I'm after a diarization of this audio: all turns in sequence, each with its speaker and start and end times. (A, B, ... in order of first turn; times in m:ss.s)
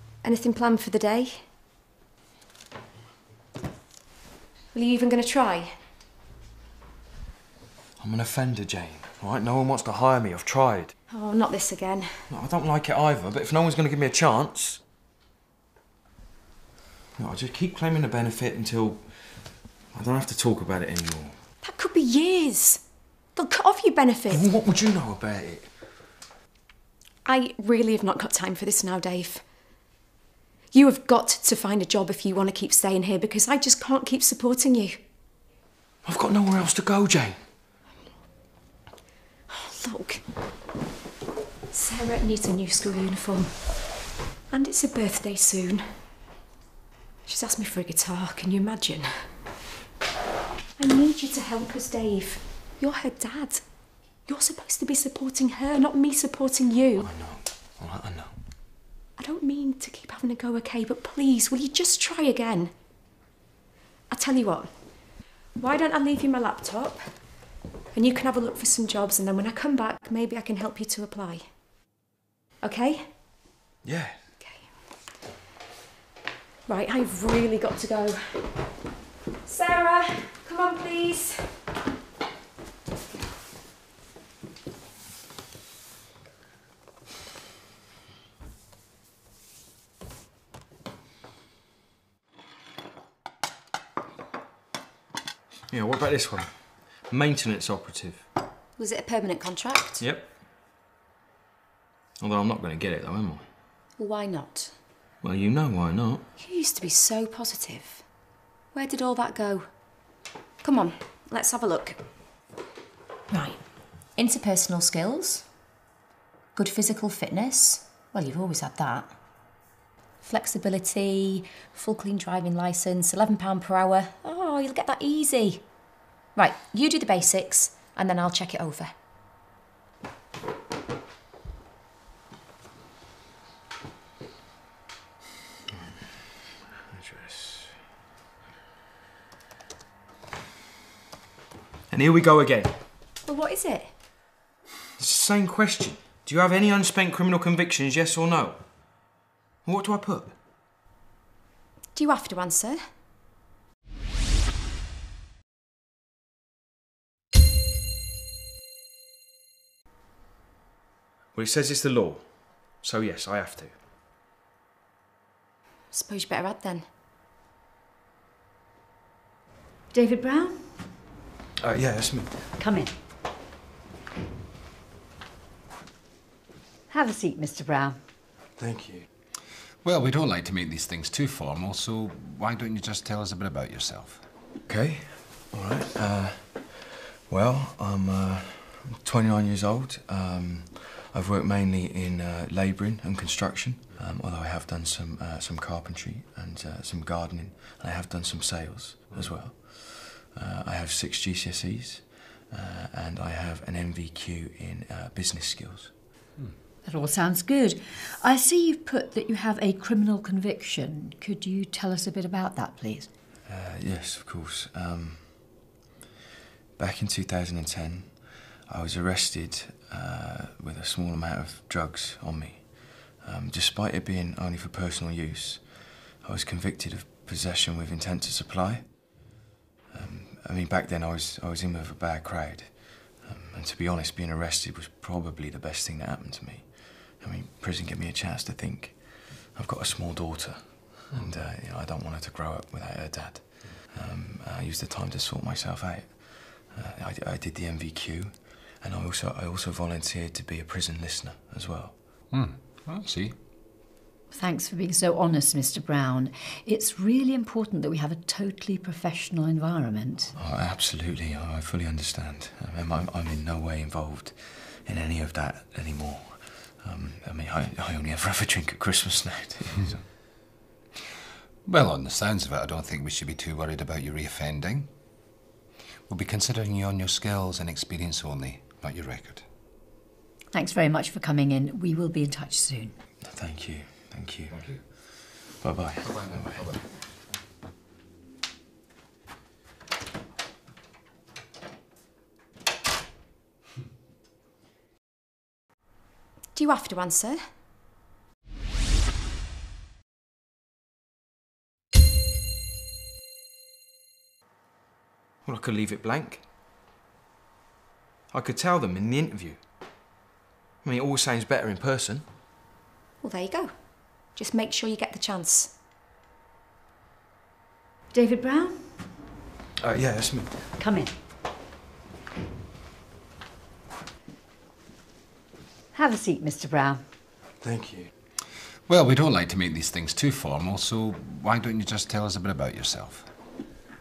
0:00.2-0:01.4 A
0:04.7-0:05.8 A
0:08.0-0:10.9 B
0:11.1-0:12.3 A
0:12.3-0:14.8 B
0:17.2-0:21.4 B
0:21.6-0:22.8 A
0:23.4-0:24.4 A
0:24.3-0:25.7 B
0:27.2-0:29.4 A
0:30.7-0:35.0 A
0:36.0-0:37.4 B
0:39.5-0:40.2 A
0:41.7-0:43.6 A
0:44.5-0:45.8 A
0:47.3-0:49.3 A
0:50.8-0:53.6 A
0:54.3-0:57.0 A
0:57.0-0:58.4 B
0:59.2-1:02.7 A
1:04.1-1:04.7 A
1:05.6-1:07.1 A
1:07.9-1:11.5 A
1:12.6-1:13.1 A
1:13.8-1:14.2 B
1:14.4-1:14.7 A
1:16.7-1:18.5 A
1:19.4-1:21.5 A
1:35.7-1:38.3 B
1:38.8-1:40.0 A
1:40.0-1:40.3 B
1:42.2-1:43.4 B
1:44.0-1:44.8 A
1:45.2-1:46.2 B
1:46.4-1:48.0 A
1:48.7-1:49.7 A
1:50.6-1:52.0 A
1:53.3-1:53.6 A
1:54.2-1:55.5 A
1:56.6-1:59.1 A
2:00.2-2:05.7 A
2:06.4-2:08.9 A
2:16.7-2:17.8 B
2:21.9-2:22.8 B
2:23.2-2:23.9 A
2:25.0-2:28.7 B
2:29.6-2:30.4 B
2:32.0-2:32.8 A
2:41.3-2:43.8 B
2:45.9-2:46.9 A
2:49.9-2:50.8 C
2:51.6-2:52.4 B
2:52.6-2:52.9 C
2:56.9-2:58.0 C
2:58.6-2:59.1 B
2:59.8-3:04.2 D
3:04.7-3:25.9 B
3:26.8-3:33.1 C
3:33.5-3:35.6 B
3:36.8-3:49.2 B
3:49.9-4:12.0 B
4:12.3-4:13.4 D
4:14.3-4:20.3 C
4:20.4-4:30.0 B
4:31.6-4:34.9 D
4:36.1-4:39.4 D
4:40.5-4:43.0 C
4:43.3-4:46.6 B
4:44.5-4:44.8 D
4:46.0-4:46.9 D
4:56.6-4:57.4 A
5:05.4-5:06.4 B
5:08.3-5:09.6 B
5:10.8-5:12.3 B
5:13.2-5:13.7 A
5:14.3-5:15.8 A
5:18.1-5:19.0 C
5:19.8-5:20.5 B
5:20.8-5:21.1 C
5:25.9-5:27.0 C
5:27.6-5:28.1 B
5:28.8-5:33.3 D